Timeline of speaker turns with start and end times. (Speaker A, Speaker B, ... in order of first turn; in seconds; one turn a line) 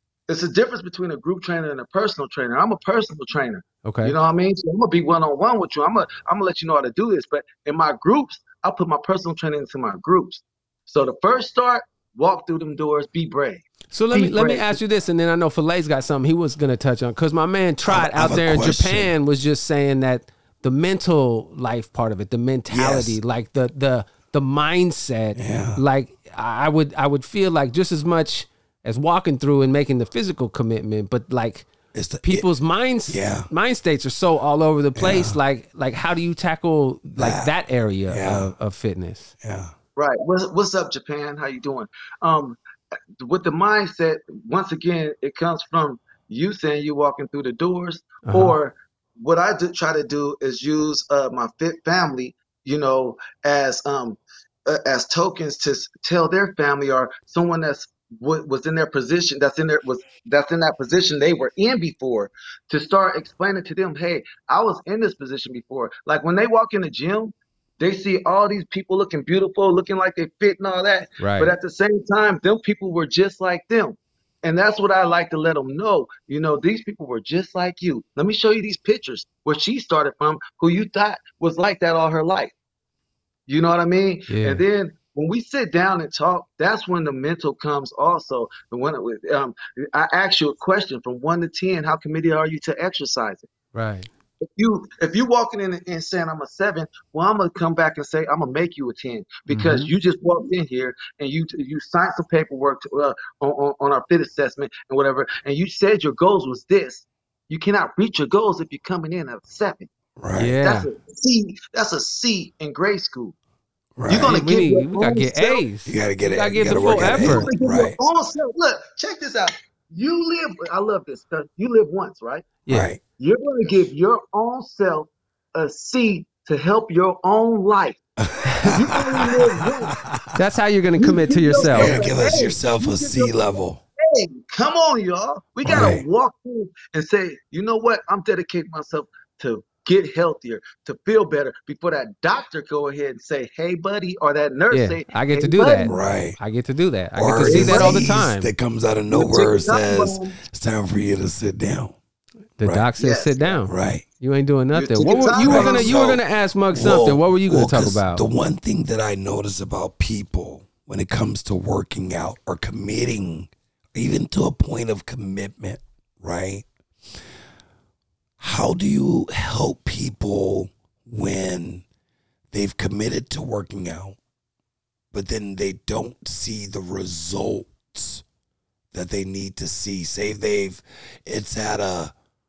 Speaker A: 0.3-14.8
Speaker B: 3.8-4.1
Speaker B: 13.9-31.7
Speaker C: 17.8-19.1
Speaker C: 22.7-23.2
Speaker C: 25.3-25.8
Speaker C: 31.9-32.5
Speaker B: 32.2-39.3
Speaker C: 33.1-33.5
Speaker C: 35.0-35.4
Speaker C: 37.1-37.5
Speaker C: 38.1-38.5
Speaker C: 39.4-39.7
Speaker A: 40.0-42.6
Speaker A: 43.2-82.5
Speaker B: 48.2-48.6
Speaker B: 71.2-71.5
Speaker A: 83.5-93.5
Speaker B: 84.3-84.6
Speaker B: 93.7-94.1
Speaker A: 94.5-109.9
Speaker B: 99.5-99.9
Speaker C: 110.2-110.5
Speaker B: 110.4-110.9
Speaker A: 110.6-113.3
Speaker C: 114.0-114.4
Speaker A: 114.1-115.6
Speaker B: 114.2-117.5
Speaker C: 115.8-118.0
Speaker A: 116.7-122.5
Speaker B: 122.7-122.9
Speaker C: 122.7-123.0
Speaker A: 123.2-128.0
Speaker C: 128.2-130.2
Speaker B: 128.5-128.9
Speaker A: 128.7-130.0
Speaker B: 130.4-131.9
Speaker A: 131.0-145.9
Speaker C: 131.6-133.8
Speaker C: 135.6-136.0
Speaker B: 144.7-148.5
Speaker C: 145.8-146.4
Speaker C: 147.1-151.9
Speaker A: 147.3-148.1
Speaker A: 149.1-150.3
Speaker B: 152.6-158.2
Speaker C: 152.6-152.9
Speaker A: 153.0-153.6
Speaker C: 153.7-154.0
Speaker A: 154.7-156.0
Speaker C: 155.4-166.7
Speaker C: 168.4-171.8
Speaker C: 172.5-174.2
Speaker C: 175.1-178.2
Speaker C: 178.9-182.1